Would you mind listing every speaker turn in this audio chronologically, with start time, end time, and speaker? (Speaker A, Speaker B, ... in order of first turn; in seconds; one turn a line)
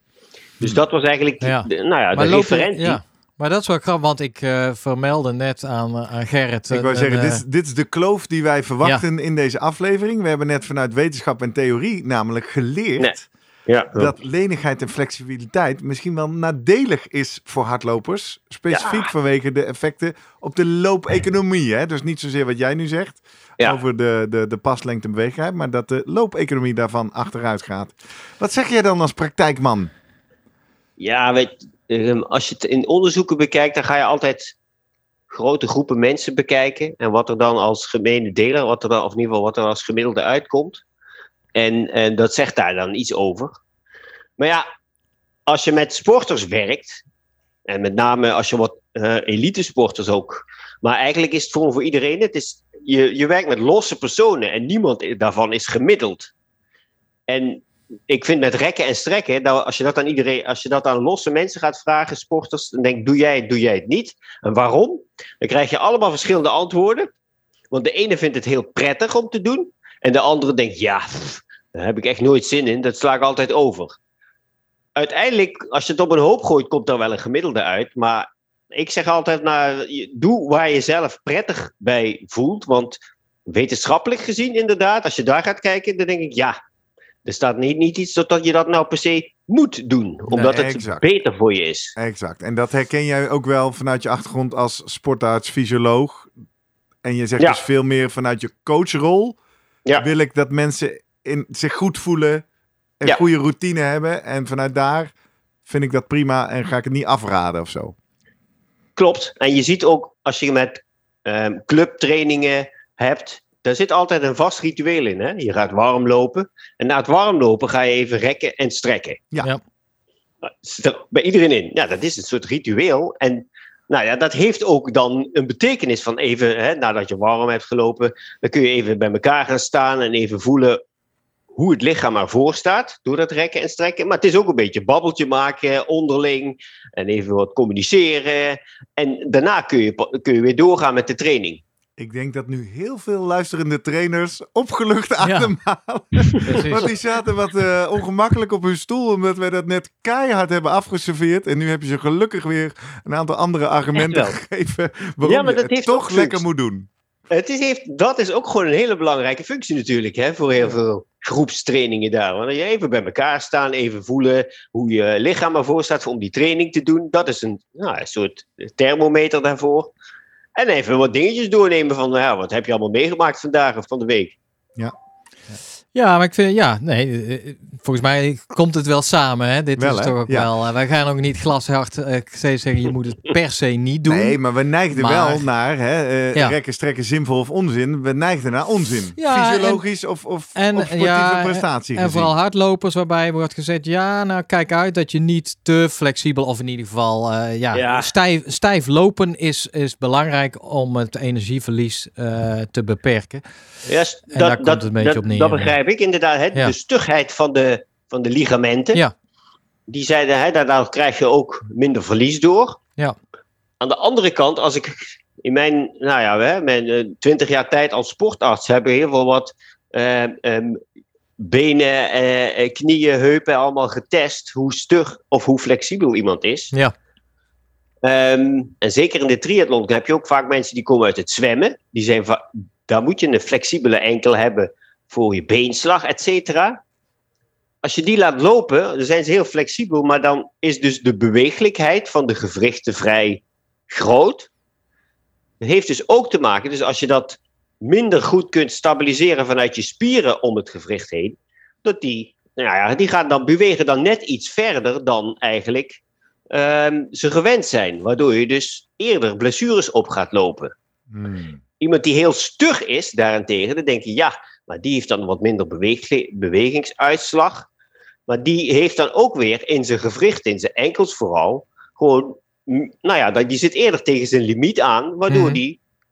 Speaker A: 0.6-3.0
Speaker B: 1.4-7.4
Speaker C: 6.7-13.3
Speaker A: 13.7-14.1
Speaker C: 13.9-29.9
Speaker A: 18.7-19.0
Speaker A: 31.0-34.5
Speaker A: 35.3-40.8
Speaker A: 41.5-43.5
Speaker A: 44.4-44.6
Speaker A: 45.5-47.0
Speaker A: 47.7-56.3
Speaker A: 57.3-67.1
Speaker A: 67.7-74.0
Speaker A: 75.0-86.5
Speaker A: 87.2-91.9
Speaker C: 90.4-91.0
Speaker C: 92.0-96.3
Speaker C: 97.0-99.4
Speaker C: 100.0-102.4
Speaker C: 103.0-105.1
Speaker C: 105.7-107.9
Speaker A: 109.0-119.2
Speaker A: 120.4-130.8
Speaker A: 131.5-141.6
Speaker C: 142.0-156.9
Speaker B: 145.2-145.5
Speaker B: 146.4-146.9
Speaker A: 153.9-154.4
Speaker A: 155.2-156.4
Speaker A: 157.3-169.9
Speaker A: 170.6-174.3
Speaker B: 175.9-184.4
Speaker C: 179.8-180.5
Speaker C: 184.0-192.3
Speaker B: 184.9-185.4
Speaker B: 189.2-189.8
Speaker B: 190.6-203.4
Speaker A: 197.7-198.1
Speaker A: 203.9-209.0
Speaker B: 204.3-205.7
Speaker A: 209.9-212.8
Speaker A: 213.8-220.8
Speaker A: 221.4-226.7
Speaker A: 228.0-236.8
Speaker A: 237.8-244.5
Speaker A: 245.6-256.0
Speaker A: 256.5-260.7
Speaker C: 261.1-261.6
Speaker A: 261.8-267.7
Speaker A: 268.3-275.8
Speaker B: 275.3-275.6